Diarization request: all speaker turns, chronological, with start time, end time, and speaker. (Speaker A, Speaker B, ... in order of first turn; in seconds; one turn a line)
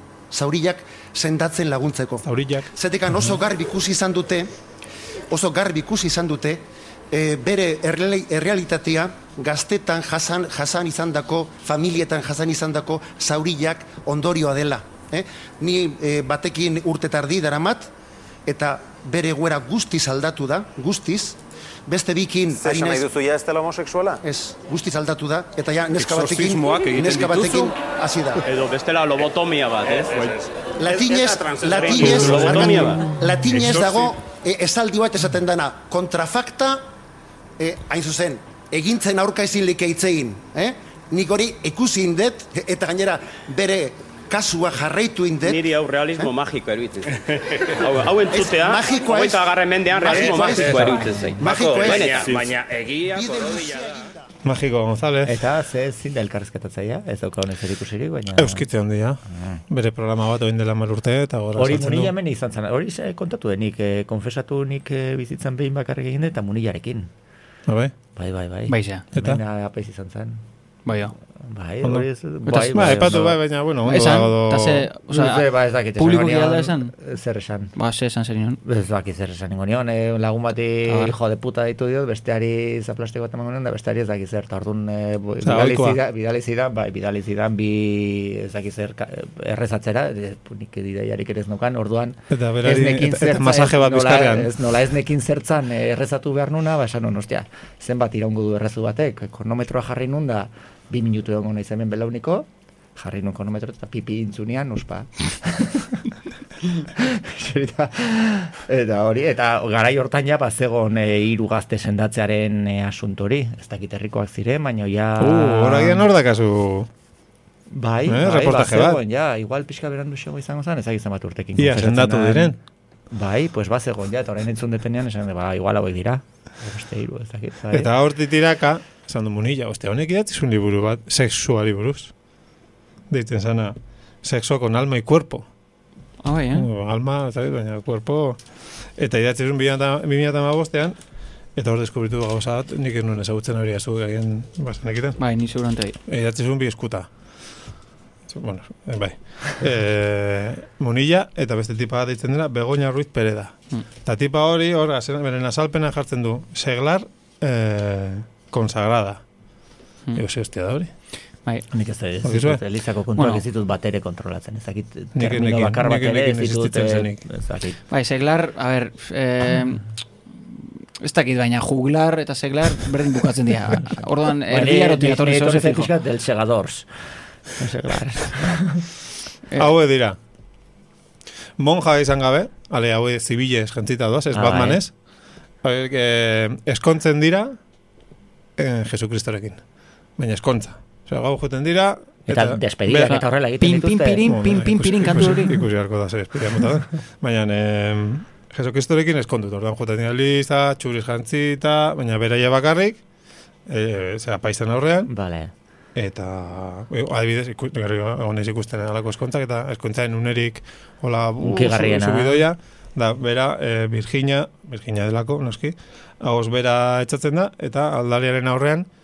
Speaker A: 0.3-4.5
Speaker B: 2.2-2.7
Speaker A: 5.3-17.9
Speaker A: 18.5-23.1
Speaker C: 22.6-24.2
Speaker A: 24.2-28.4
Speaker C: 26.0-27.7
Speaker D: 28.4-30.5
Speaker C: 29.9-31.8
Speaker A: 30.8-36.9
Speaker D: 31.5-33.1
Speaker A: 37.6-45.7
Speaker D: 45.4-52.6
Speaker A: 48.3-52.4
Speaker C: 50.2-53.9
Speaker E: 51.1-51.4
Speaker A: 53.1-54.1
Speaker B: 54.4-55.4
Speaker E: 55.2-58.6
Speaker B: 58.3-62.1
Speaker E: 59.3-59.6
Speaker E: 61.6-67.1
Speaker B: 67.7-67.9
Speaker E: 68.2-70.4
Speaker F: 68.7-69.0
Speaker B: 69.2-69.4
Speaker F: 70.9-71.1
Speaker E: 71.4-73.4
Speaker B: 71.8-74.9
Speaker F: 72.5-73.0
Speaker F: 73.9-76.9
Speaker E: 75.1-77.7
Speaker F: 77.8-78.6
Speaker E: 78.6-106.1
Speaker F: 80.9-81.2
Speaker B: 85.4-86.0
Speaker B: 92.3-94.5
Speaker E: 106.6-116.1
Speaker B: 115.2-116.9
Speaker E: 117.7-122.5
Speaker B: 118.1-119.0
Speaker B: 121.6-122.6
Speaker E: 123.1-127.9
Speaker B: 127.7-132.1
Speaker B: 133.1-135.4
Speaker F: 136.2-136.7
Speaker B: 136.5-138.4
Speaker B: 139.0-141.0
Speaker B: 141.6-145.2
Speaker F: 145.2-146.0
Speaker B: 146.1-147.1
Speaker B: 148.3-159.2
Speaker B: 160.2-160.9
Speaker E: 161.7-167.8
Speaker B: 162.2-162.6
Speaker F: 163.2-163.4
Speaker B: 165.2-167.2
Speaker F: 167.9-169.9
Speaker F: 171.0-175.9
Speaker E: 174.4-176.9
Speaker E: 177.5-178.9
Speaker B: 179.6-180.2
Speaker B: 181.6-184.9
Speaker E: 184.3-184.8
Speaker B: 185.6-187.6
Speaker B: 188.6-189.6
Speaker B: 190.2-193.2
Speaker E: 192.3-194.3
Speaker F: 193.1-195.6
Speaker B: 194.2-203.0
Speaker B: 203.7-205.1
Speaker E: 205.1-205.5
Speaker B: 206.0-218.9
Speaker E: 211.4-212.4